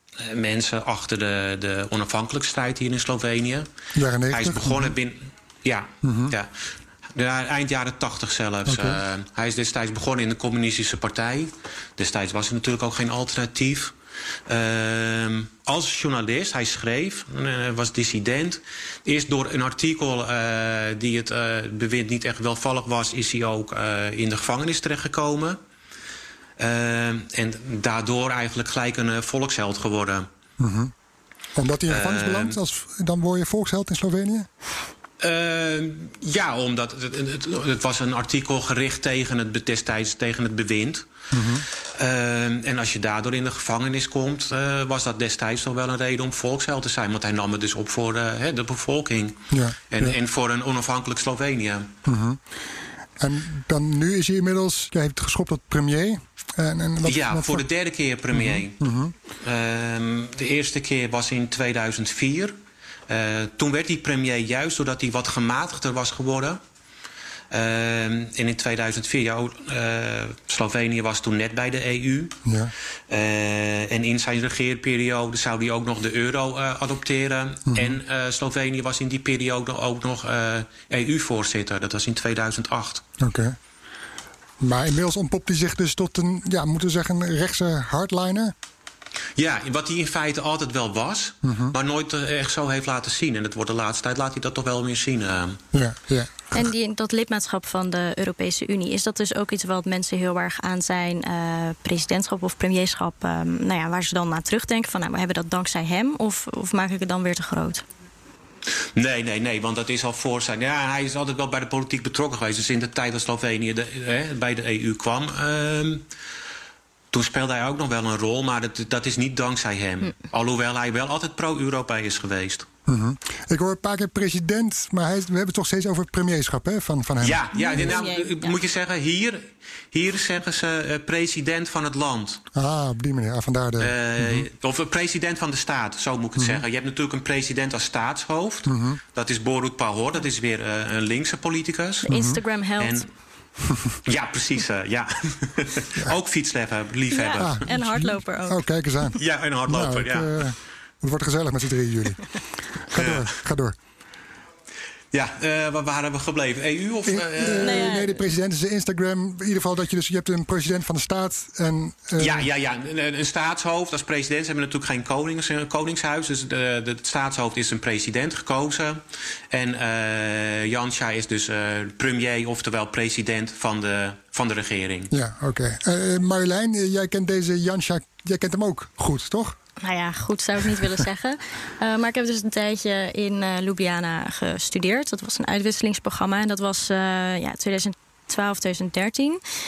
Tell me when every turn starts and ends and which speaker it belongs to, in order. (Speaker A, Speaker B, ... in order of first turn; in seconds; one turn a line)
Speaker A: 0.2-3.7
Speaker B: 3.9-4.9
Speaker A: 4.3-13.9
Speaker B: 6.0-6.3
Speaker B: 8.7-9.0
Speaker A: 14.5-25.6
Speaker A: 26.6-30.3
Speaker B: 30.6-30.9
Speaker B: 31.6-34.5
Speaker A: 31.9-32.6
Speaker A: 35.2-41.1
Speaker B: 41.3-41.6
Speaker A: 42.0-52.0
Speaker B: 49.5-50.2
Speaker B: 52.1-52.4
Speaker B: 53.2-57.6
Speaker A: 57.0-58.8
Speaker B: 58.3-59.1
Speaker A: 59.4-62.6
Speaker A: 63.1-66.6
Speaker A: 67.5-72.4
Speaker B: 72.5-72.7
Speaker A: 73.1-83.0
Speaker B: 77.7-78.0
Speaker B: 83.2-83.6
Speaker B: 84.6-88.5
Speaker A: 89.4-95.6
Speaker B: 91.4-91.8
Speaker B: 95.7-96.6
Speaker C: 96.5-107.8
Speaker A: 109.0-116.1
Speaker A: 117.1-122.7
Speaker B: 122.9-128.0
Speaker A: 127.2-132.4
Speaker C: 127.5-128.6
Speaker B: 132.5-134.5
Speaker A: 133.8-142.1
Speaker B: 136.4-136.6
Speaker B: 138.7-139.0
Speaker B: 142.1-142.4
Speaker C: 142.1-143.1
Speaker A: 142.8-143.1
Speaker A: 144.1-147.6
Speaker C: 147.1-148.6
Speaker B: 147.4-152.2
Speaker A: 149.2-150.5
Speaker B: 152.9-153.8
Speaker A: 152.9-153.3
Speaker A: 155.1-158.0
Speaker B: 157.1-162.5
Speaker C: 157.6-158.2
Speaker A: 162.2-175.1
Speaker B: 175.1-179.6
Speaker C: 179.8-189.4